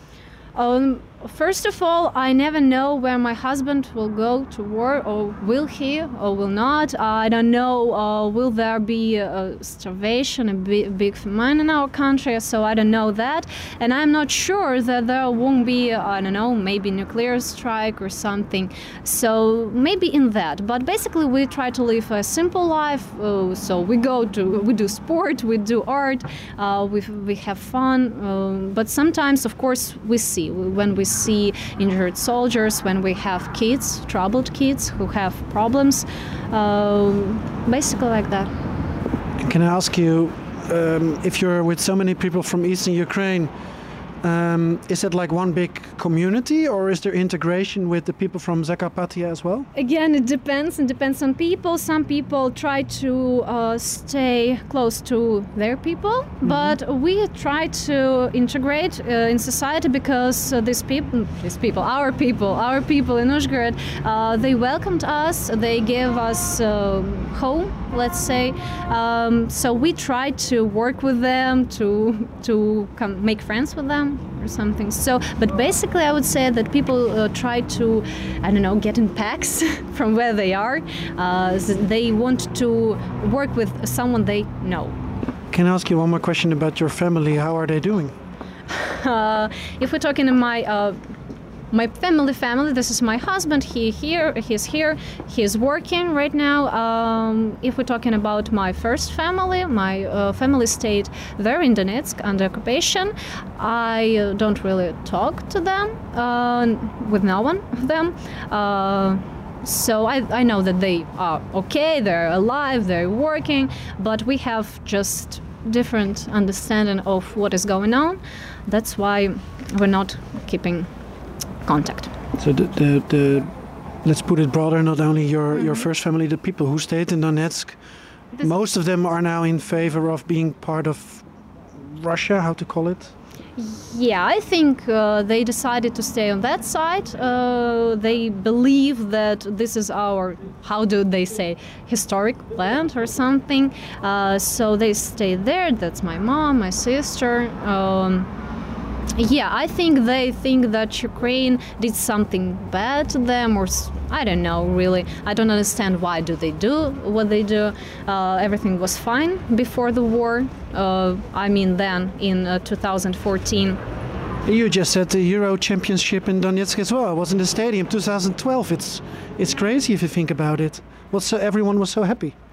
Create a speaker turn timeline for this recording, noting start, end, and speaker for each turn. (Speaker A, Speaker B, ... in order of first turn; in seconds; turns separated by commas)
Speaker A: 0.6-38.5, Speaker B: 39.4-43.5, Speaker B: 44.2-49.7, Speaker A: 49.8-85.0, Speaker B: 56.4-56.8, Speaker B: 85.5-88.1, Speaker A: 88.7-91.0, Speaker A: 91.7-120.9, Speaker A: 121.7-122.1, Speaker B: 122.4-123.5, Speaker B: 124.0-127.8, Speaker A: 125.5-125.9, Speaker B: 128.4-131.2, Speaker B: 131.8-133.1, Speaker A: 133.6-148.3, Speaker A: 149.2-163.8, Speaker B: 164.5-172.3